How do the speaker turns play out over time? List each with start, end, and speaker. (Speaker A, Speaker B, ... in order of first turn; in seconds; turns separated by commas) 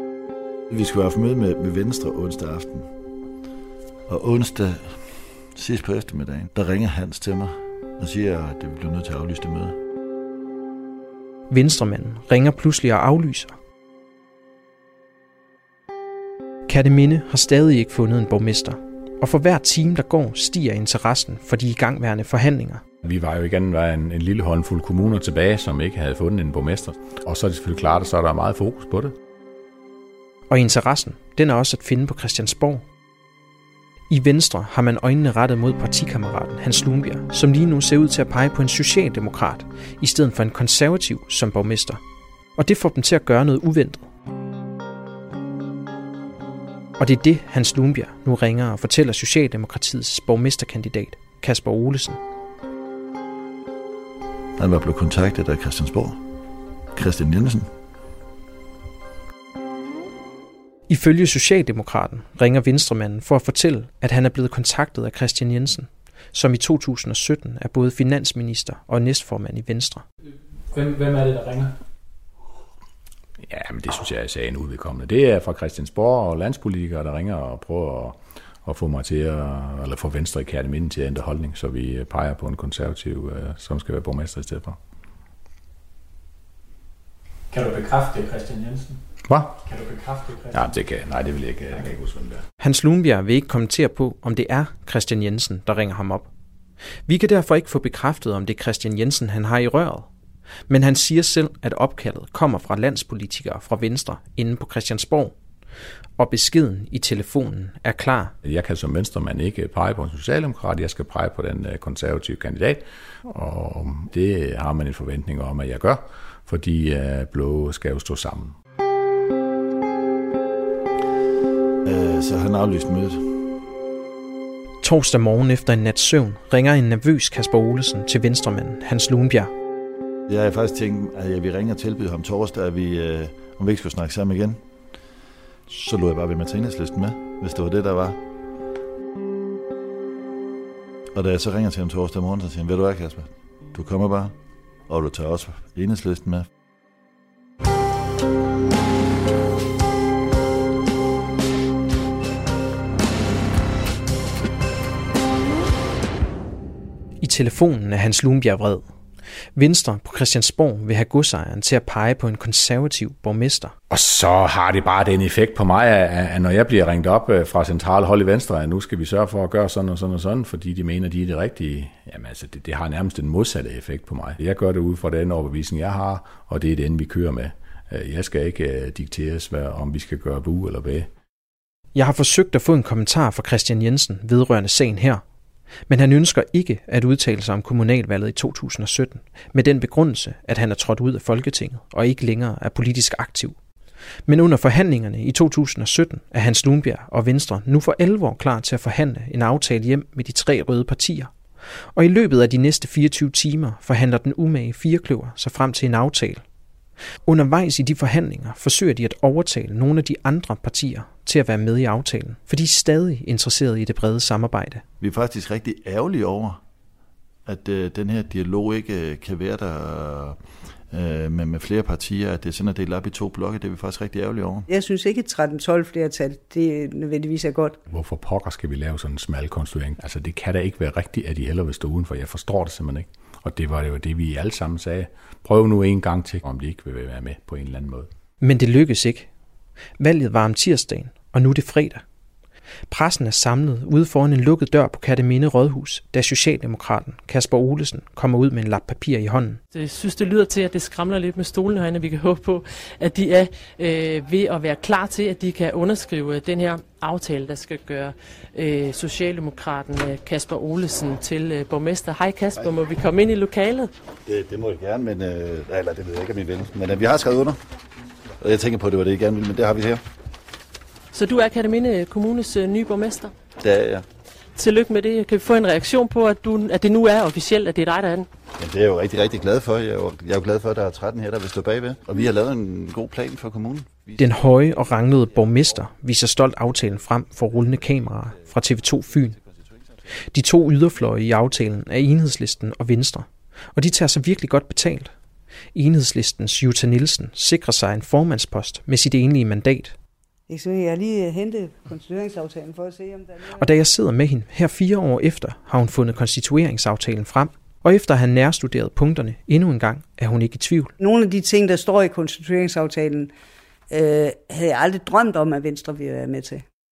Speaker A: 0.7-2.9, Speaker A: 4.1-9.8, Speaker B: 11.5-13.5, Speaker B: 16.7-22.8, Speaker C: 23.0-29.1, Speaker B: 30.5-32.8, Speaker B: 34.1-42.0, Speaker B: 42.6-44.1, Speaker B: 47.0-52.2, Speaker A: 54.6-56.2, Speaker A: 56.9-57.7, Speaker B: 60.9-70.0, Speaker D: 70.7-71.7, Speaker C: 73.4-84.8, Speaker D: 87.5-89.0, Speaker C: 89.3-89.6, Speaker D: 89.6-90.8, Speaker C: 90.5-92.4, Speaker B: 92.6-96.3, Speaker B: 97.1-100.1, Speaker B: 100.7-105.3, Speaker B: 106.2-108.3, Speaker C: 108.4-118.5, Speaker A: 121.8-123.3, Speaker B: 124.8-129.5, Speaker A: 130.3-134.6, Speaker A: 135.7-138.2, Speaker A: 141.1-144.3, Speaker A: 144.9-146.5, Speaker B: 157.2-158.8, Speaker B: 159.6-163.7, Speaker C: 163.9-181.1, Speaker B: 181.9-185.2, Speaker B: 185.9-193.6, Speaker B: 194.3-201.3, Speaker B: 201.9-206.4, Speaker B: 207.3-214.8, Speaker A: 215.0-216.6, Speaker A: 217.4-220.4, Speaker A: 220.9-224.7, Speaker E: 224.7-227.8, Speaker C: 227.9-238.1, Speaker B: 238.4-239.3, Speaker B: 240.0-242.0, Speaker B: 242.9-249.6, Speaker F: 249.7-263.9, Speaker A: 264.2-267.6, Speaker A: 268.4-270.0, Speaker F: 271.1-273.3, Speaker A: 273.6-274.0, Speaker F: 274.6-278.3, Speaker A: 278.6-284.3, Speaker B: 284.2-289.4, Speaker B: 290.3-295.1, Speaker B: 295.7-299.9, Speaker E: 300.5-303.5, Speaker B: 303.6-310.9, Speaker E: 311.0-313.3, Speaker E: 313.9-316.6